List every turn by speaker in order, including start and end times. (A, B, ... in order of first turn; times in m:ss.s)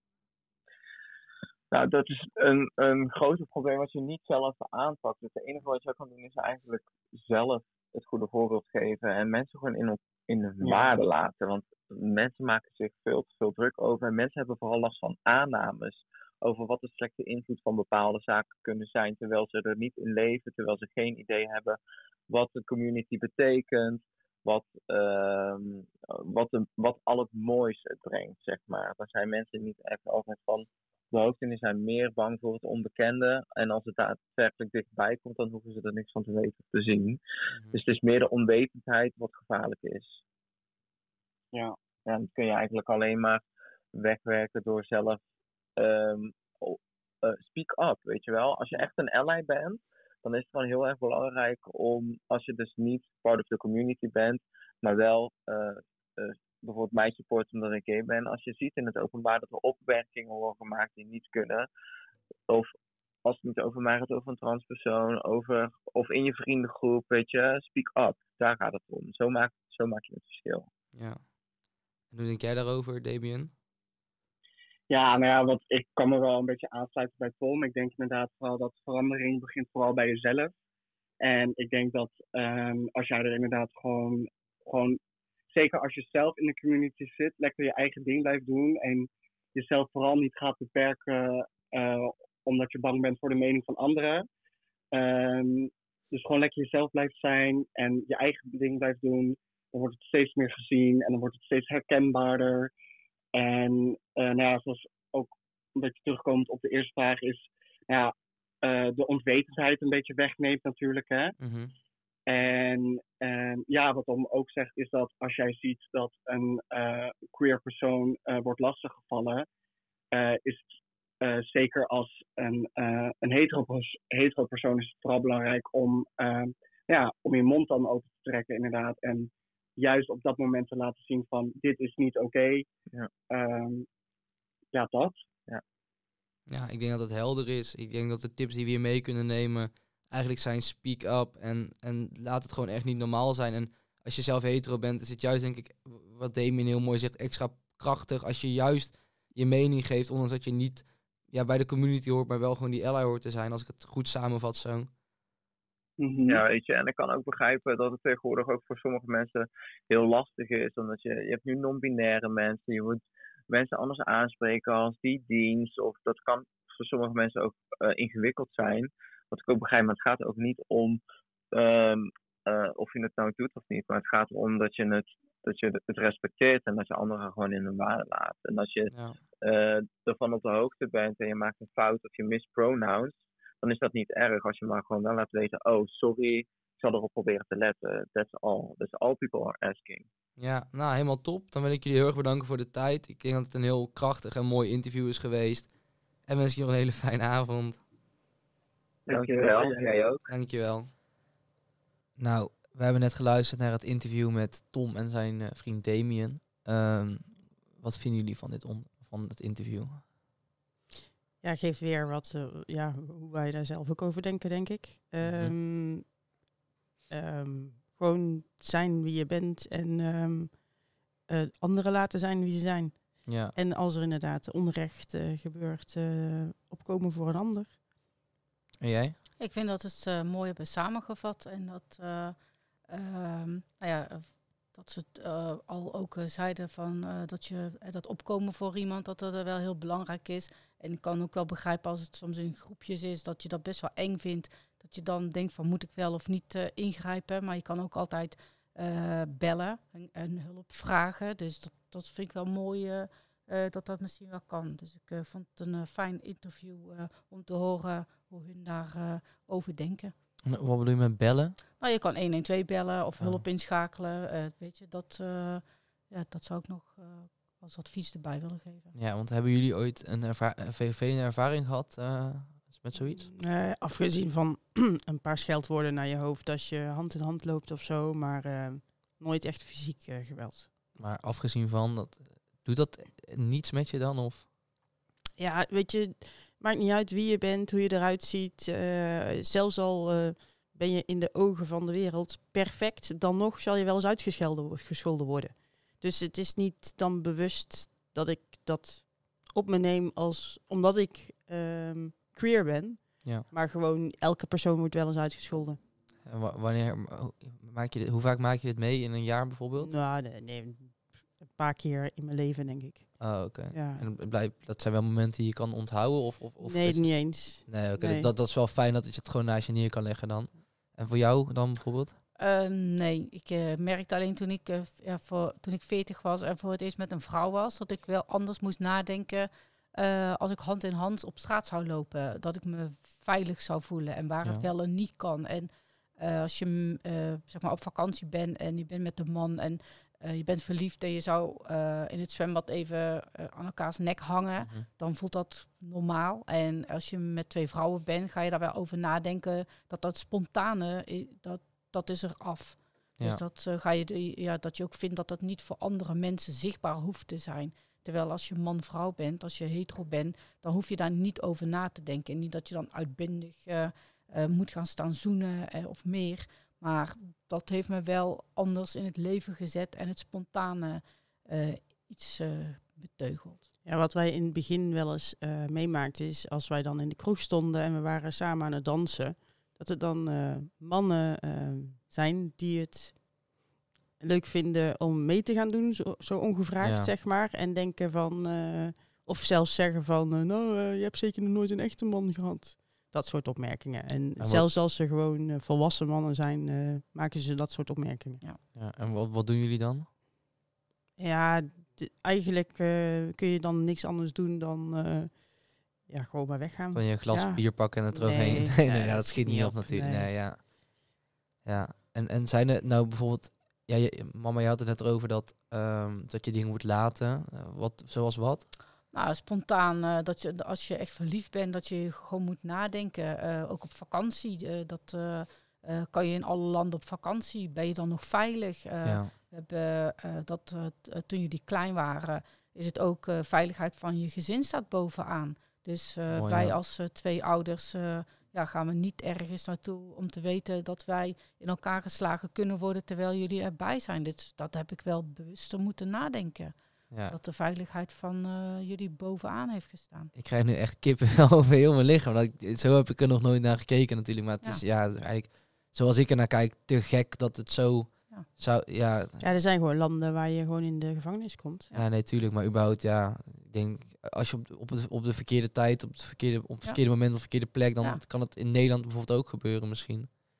0:01.7-0:21.8 A
0:22.3-0:37.2 A
0:37.5-0:37.8 B
0:37.7-0:40.2 A
0:42.0-0:45.2 A
0:45.8-1:01.7 A
1:03.2-1:10.7 A
1:10.9-1:11.2 B
1:12.1-1:13.5 B
1:14.9-1:20.5 C
1:21.2-1:34.3 C
1:34.9-1:42.7 C
1:43.3-1:51.3 C
1:51.4-1:51.7 B
1:52.3-1:59.4 C
2:00.1-2:00.6 C
2:01.2-2:12.6 C
2:13.3-2:13.9 C
2:14.7-2:15.2 C
2:16.5-2:34.9 B
2:36.0-2:36.4 C
2:36.2-2:51.0 A
2:51.5-3:10.0 A
2:58.9-2:59.2 B
3:10.4-3:15.7 B
3:16.3-3:17.8 B
3:19.0-3:19.9 C
3:19.1-3:20.2 A
3:20.3-3:20.9 B
3:22.2-3:30.0 B
3:31.4-3:36.2 D
3:35.2-3:35.5 B
3:37.1-3:40.6 D
3:41.2-3:47.8 D
3:43.2-3:43.5 B
3:48.8-3:49.2 B
3:49.4-3:52.4 E
3:52.9-4:20.1 E
4:20.4-4:21.6 B
4:21.8-4:28.9 E
4:28.9-4:33.3 B
4:33.0-4:40.7 D
4:41.0-4:44.4 B
4:45.4-5:05.8 D
5:06.2-5:09.9 B
5:09.8-5:14.0 D
5:13.2-5:22.2 B
5:16.6-5:18.3 D
5:22.4-6:13.6 E
5:44.6-5:44.8 B
6:13.8-6:23.3 D
6:24.2-6:38.4 D
6:26.8-6:27.1 B
6:34.4-6:34.7 B
6:38.7-6:40.1 B
6:41.2-6:50.3 D
6:46.9-6:58.7 B
6:59.1-7:26.7 E
7:09.0-7:09.3 B
7:16.3-7:16.8 B
7:27.1-7:27.4 B
7:27.3-7:30.3 E
7:30.3-7:39.4 B
7:39.4-7:41.9 D
7:41.9-7:50.4 B